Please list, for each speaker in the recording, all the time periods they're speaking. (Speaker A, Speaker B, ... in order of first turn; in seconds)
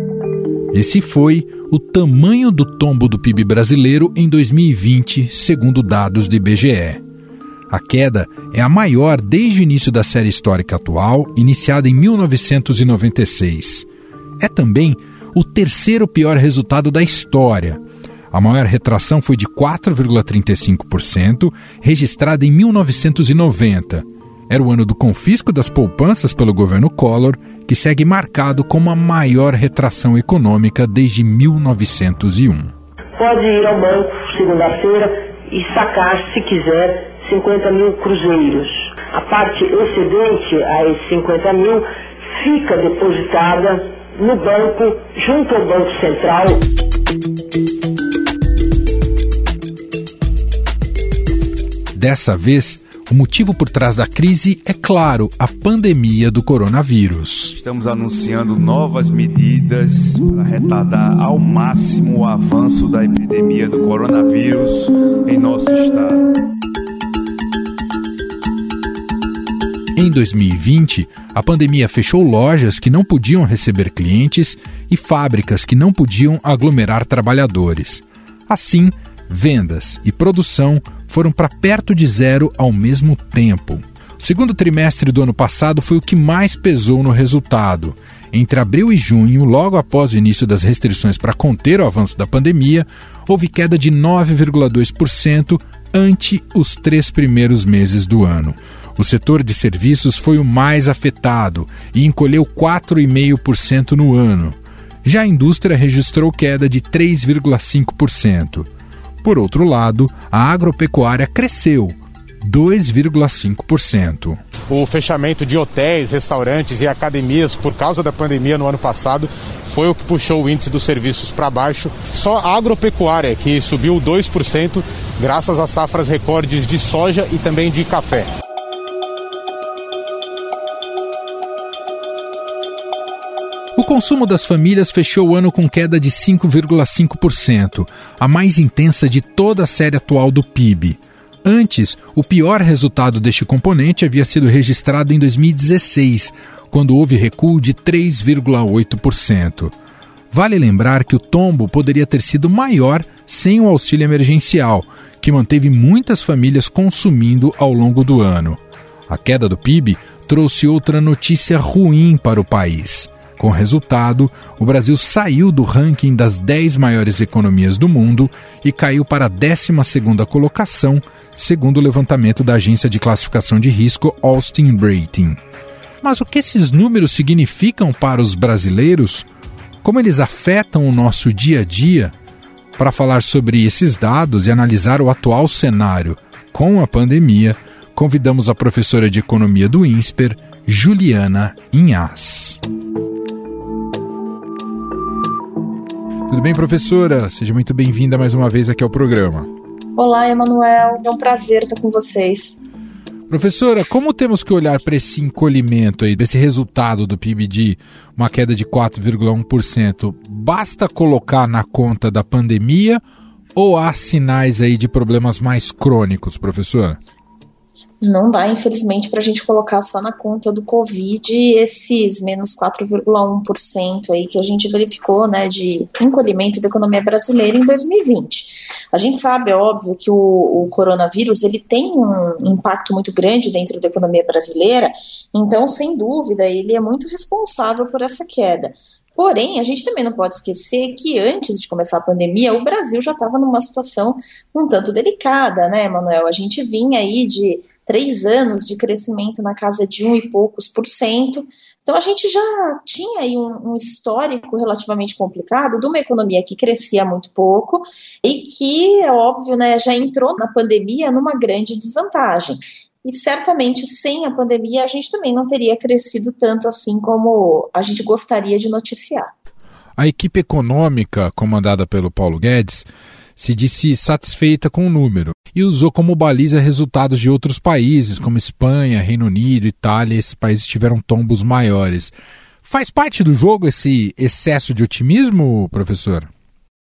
Speaker A: 0.7-7.0, 7.7-13.9, 14.4-32.7, 52.0-57.6, 70.0-108.7, 109.2-114.4, 133.8-149.7, 150.3-175.4, 176.0-179.3, 179.8-182.2, 182.8-192.6, 196.3-199.5, 203.3-213.0, 213.6-217.0, 270.0-286.3
Speaker B: 33.2-46.6
Speaker C: 57.6-66.2
Speaker D: 114.7-128.3
Speaker E: 200.0-202.6, 218.0-269.3